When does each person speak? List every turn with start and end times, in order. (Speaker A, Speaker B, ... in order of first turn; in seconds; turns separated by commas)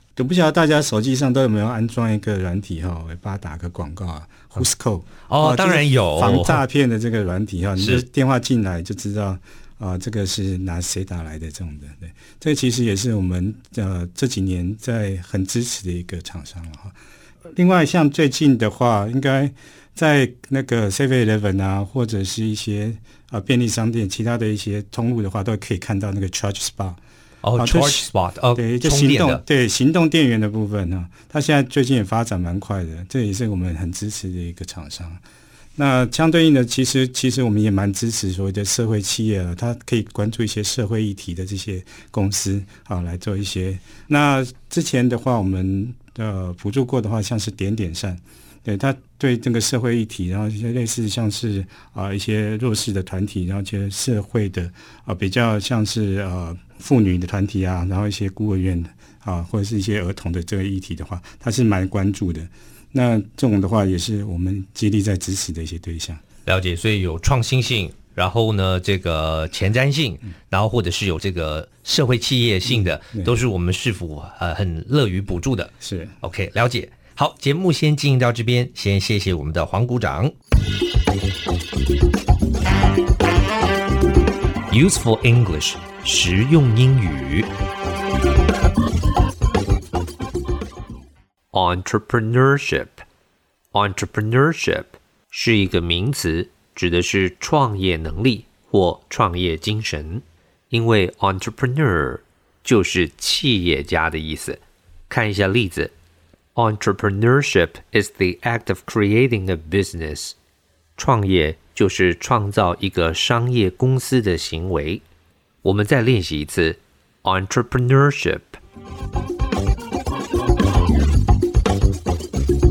Speaker A: 0.2-16.9, Speaker B: 5.3-6.6, Speaker B: 7.8-8.1, Speaker A: 17.6-27.0, Speaker B: 27.4-29.4, Speaker A: 27.6-35.2, Speaker A: 35.8-66.2, Speaker B: 66.5-80.3, Speaker A: 72.7-73.3, Speaker A: 75.8-76.2, Speaker B: 84.7-87.5, Speaker B: 91.5-93.0, Speaker B: 93.7-105.9, Speaker B: 106.5-110.4, Speaker B: 111.0-115.0, Speaker B: 115.6-118.6